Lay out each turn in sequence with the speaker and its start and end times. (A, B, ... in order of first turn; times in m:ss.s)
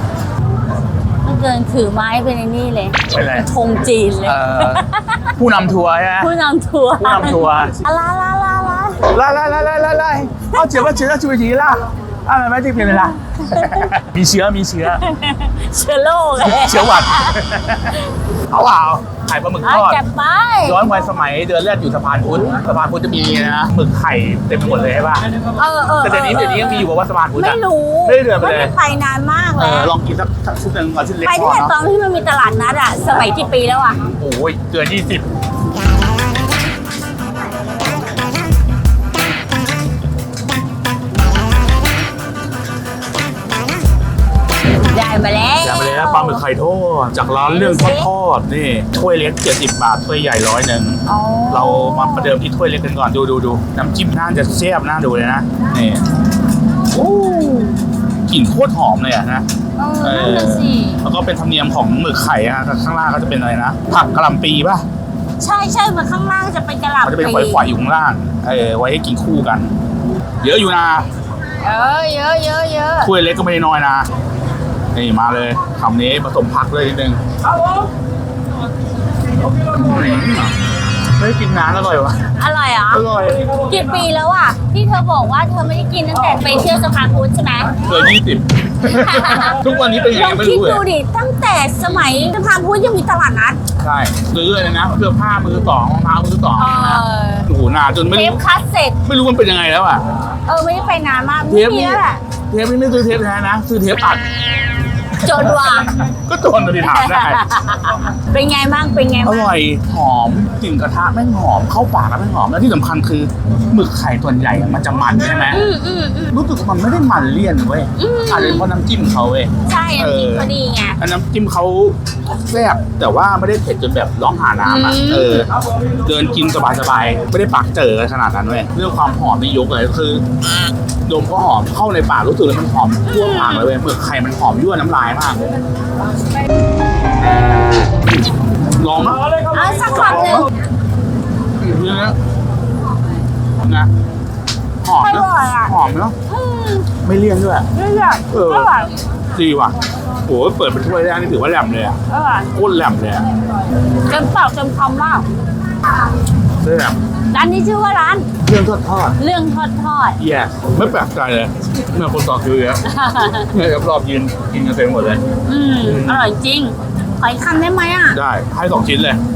0:01.2-0:05.3 A
0:03.1-0:03.5 B
0:04.2-0:04.8 B
0:05.4-0:06.3 B
0:06.2-0:09.2 A
0:07.0-0:07.8 B
0:09.1-0:15.0 B
0:10.5-0:10.9 A
0:12.9-0:13.9 A
0:14.9-0:17.4 A
0:16.4-0:18.0 B
0:18.5-0:20.0 B
0:19.6-0:20.8 A
0:20.6-0:25.2 B
0:25.6-0:29.9 A
0:26.0-0:28.8 B
0:29.6-0:31.8 B
0:31.2-0:34.0 A
0:34.0-0:35.2 B
0:44.9-0:46.4 A
0:45.6-0:56.0 B
0:47.4-0:48.1 A
0:51.1-0:52.4 A
0:56.9-0:57.8 A
0:58.3-0:59.5 B
0:59.8-1:01.0 A
1:00.0-1:04.8 B
1:05.4-1:07.7 A
1:07.0-1:09.8 B
1:10.4-1:11.1 B
1:11.6-1:13.1 A
1:13.0-1:14.1 B
1:14.9-1:17.2 B
1:19.7-1:20.5 B
1:21.2-1:22.2 B
1:22.4-1:23.0 A
1:22.9-1:23.4 B
1:23.6-1:27.9 A
1:27.8-1:30.8 B
1:28.9-1:29.6 A
1:30.1-1:33.6 A
1:33.8-1:38.4 B
1:36.6-1:37.5 A
1:38.1-1:39.0 A
1:39.0-1:40.0 B
1:40.5-1:42.2 A
1:41.5-1:44.4 B
1:45.2-1:46.0 A
1:45.2-1:47.4 B
1:46.8-1:49.5 A
1:49.2-1:55.6 B
1:55.5-1:56.4 A
1:56.3-2:05.5 B
1:58.0-1:58.7 A
1:59.7-2:01.0 A
2:04.6-2:05.5 A
2:06.0-2:10.2 B
2:11.1-2:15.4 B
2:13.1-2:13.7 A
2:18.8-2:19.2 B
2:19.5-2:20.5 A
2:19.9-2:20.5 B
2:21.6-2:22.2 B
2:23.6-2:23.9 B
2:24.8-2:26.2 B
2:25.0-2:25.8 A
2:26.3-2:26.9 A
2:27.0-2:27.7 B
2:27.7-2:29.0 A
2:28.3-2:28.7 B
2:29.3-2:32.0 B
2:32.1-2:32.5 A
2:32.5-2:33.3 B
2:34.1-2:35.3 A
2:36.6-2:37.0 B
2:37.3-2:38.3 A
2:38.4-2:39.2 B
2:39.2-2:40.2 A
2:40.2-2:42.8 B
2:42.8-2:43.5 A
2:43.5-2:45.2 B
2:45.5-2:48.2 A
2:45.8-2:46.3 B
2:48.1-2:49.2 B